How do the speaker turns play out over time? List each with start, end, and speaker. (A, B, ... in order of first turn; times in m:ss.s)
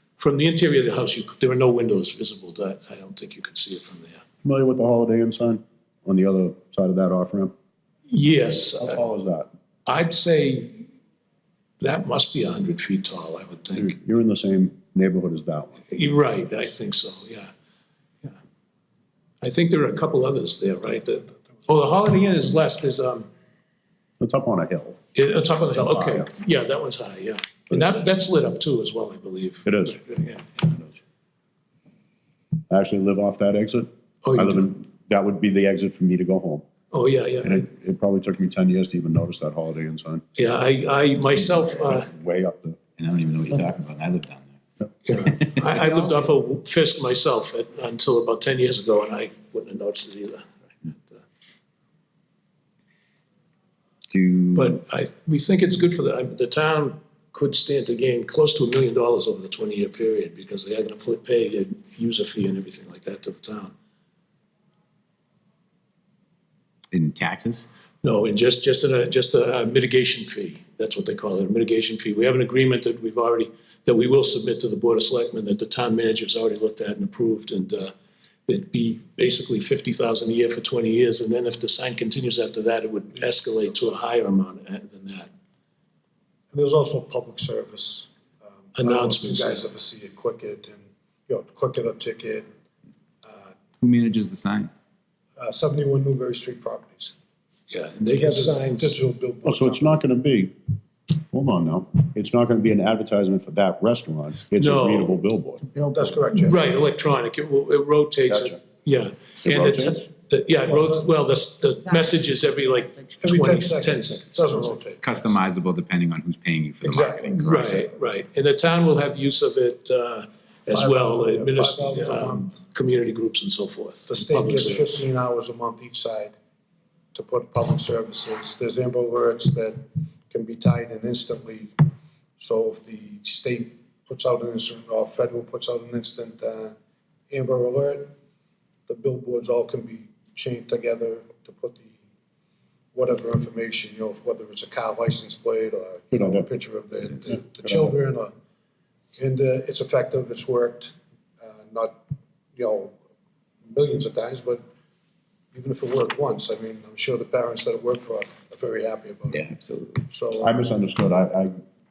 0:00.2-0:04.2 A
0:04.4-0:07.5 B
0:08.1-0:09.0 A
0:08.8-0:09.5 B
0:09.9-0:10.8 A
0:11.8-0:14.0 A
0:13.7-0:15.9 B
0:15.9-0:17.5 A
0:19.4-0:23.3 A
0:24.2-0:25.0 B
0:25.2-0:30.4 A
0:25.8-0:26.3 B
0:29.7-0:30.0 B
0:32.7-0:36.6 B
0:34.2-0:34.6 A
0:36.9-0:37.7 A
0:37.4-0:40.2 B
0:40.4-0:42.1 A
0:41.9-0:42.8 B
0:43.0-0:44.6 C
0:45.1-0:51.2 A
0:45.2-0:45.7 C
0:54.1-0:54.8 C
0:54.6-1:03.7 A
1:06.9-1:07.7 C
1:08.0-1:17.9 A
1:18.5-1:25.3 A
1:23.4-1:23.9 D
1:26.5-1:28.1 D
1:28.6-1:32.5 D
1:28.8-1:29.7 A
1:33.2-1:33.5 D
1:33.8-1:34.7 C
1:35.4-1:37.1 D
1:37.7-1:39.0 A
1:38.2-1:40.0 D
1:39.4-1:40.6 B
1:41.3-1:45.7 B
1:44.6-1:45.2 A
1:45.9-1:46.6 D
1:46.3-1:54.8 A
1:48.3-1:48.6 B
1:49.4-1:50.0 B
1:53.2-1:55.3 D
1:55.0-1:57.8 C
1:56.8-1:57.4 D
1:57.4-2:05.0 A
2:00.7-2:02.5 D
2:04.1-2:06.3 D
2:07.1-2:09.8 D
2:10.3-2:11.7 D
2:12.4-2:16.7 D
2:17.3-2:18.1 D
2:18.9-2:22.0 D
2:22.9-2:28.3 D
2:26.1-2:26.5 B
2:27.6-2:27.9 B
2:29.2-2:32.0 D
2:32.6-2:33.0 D
2:33.7-2:34.6 D
2:35.5-2:39.5 D
2:39.3-2:40.1 C
2:40.1-2:40.6 D
2:40.4-2:41.6 B